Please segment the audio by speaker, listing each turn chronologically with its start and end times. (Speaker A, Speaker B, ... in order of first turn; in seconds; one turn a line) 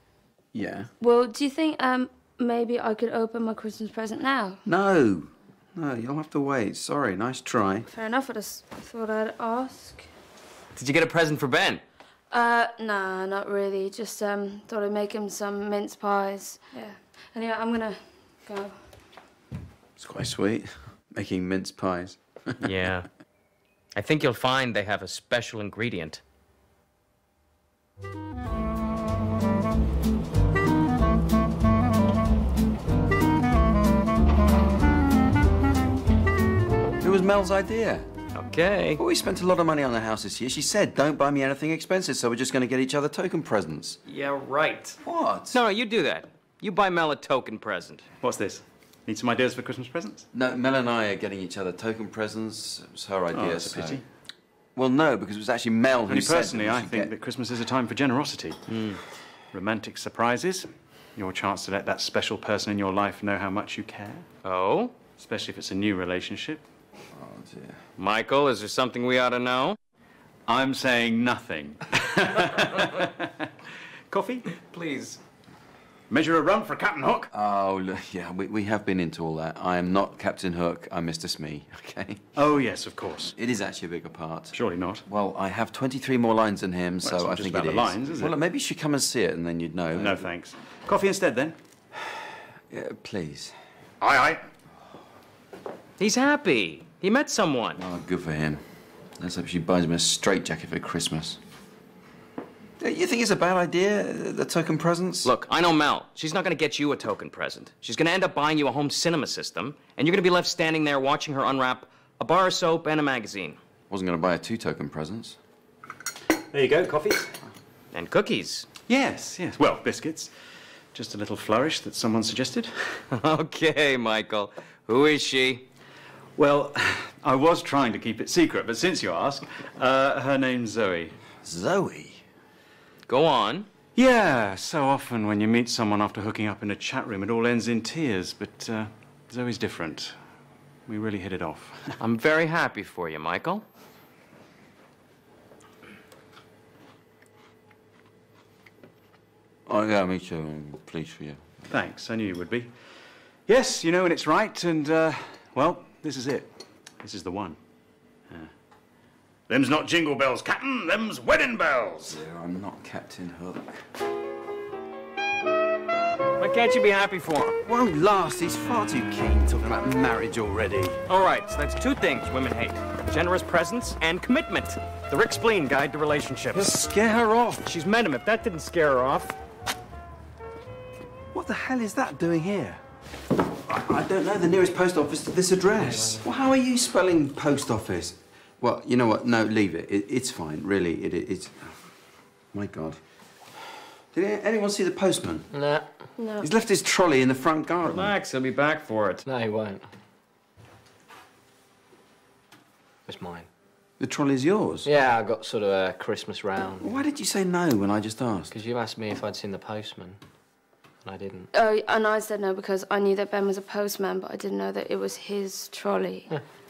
Speaker A: 0.5-0.9
Speaker B: 1.0-4.6
Speaker A: 4.6-7.8
Speaker B: 7.8-10.1
Speaker C: 10.8-11.8
Speaker B: 12.3-18.8
Speaker A: 20.0-22.7
Speaker C: 22.6-23.1
Speaker C: 23.9-26.2
Speaker A: 37.0-38.1
Speaker C: 38.3-39.0
Speaker A: 39.0-44.0
Speaker C: 44.1-45.0
Speaker A: 45.0-45.6
Speaker C: 45.5-48.1
Speaker D: 48.2-50.3
Speaker A: 50.3-54.0
Speaker D: 53.3-54.0
Speaker A: 54.7-57.1
Speaker D: 56.1-58.8
Speaker C: 58.7-59.0
Speaker D: 59.5-64.3
Speaker C: 64.4-64.9
Speaker D: 65.2-66.6
Speaker A: 67.1-67.8
Speaker C: 68.0-69.8
Speaker D: 70.5-73.5
Speaker D: 74.1-74.5
Speaker C: 74.6-75.2
Speaker D: 76.1-77.3
Speaker A: 77.3-82.2
Speaker D: 82.3-83.3
Speaker A: 83.3-90.3
Speaker D: 84.5-85.0
Speaker D: 87.0-88.4
Speaker D: 89.9-91.6
Speaker A: 92.7-93.5
Speaker D: 94.0-94.4
Speaker C: 96.0-97.8
Speaker A: 97.8-98.6
Speaker A: 99.2-101.4
Speaker A: 102.8-105.3
Speaker C: 105.2-113.6
Speaker A: 113.9-115.4
Speaker D: 116.5-117.3
Speaker C: 117.9-118.7
Speaker D: 118.9-120.3
Speaker D: 120.9-123.0
Speaker C: 123.1-125.7
Speaker D: 126.3-131.2
Speaker A: 131.4-132.2
Speaker C: 133.1-133.7
Speaker D: 133.9-140.2
Speaker D: 140.8-142.0
Speaker C: 142.0-143.6
Speaker A: 149.7-151.5
Speaker D: 151.7-157.6
Speaker D: 159.5-162.2
Speaker A: 162.1-163.8
Speaker C: 166.4-167.6
Speaker A: 167.6-171.0
Speaker C: 171.1-176.8
Speaker A: 176.5-177.7
Speaker C: 177.6-179.3
Speaker A: 181.3-182.8
Speaker A: 183.7-191.8
Speaker A: 192.5-193.0
Speaker A: 194.1-195.5
Speaker E: 195.5-196.1
Speaker B: 196.2-196.5
Speaker A: 196.4-198.1
Speaker C: 197.8-199.2
Speaker E: 199.2-199.9
Speaker E: 203.1-203.5
Speaker A: 204.0-204.9
Speaker E: 204.8-207.0
Speaker A: 206.8-208.5
Speaker E: 208.5-210.2
Speaker E: 211.0-211.5
Speaker B: 211.5-216.3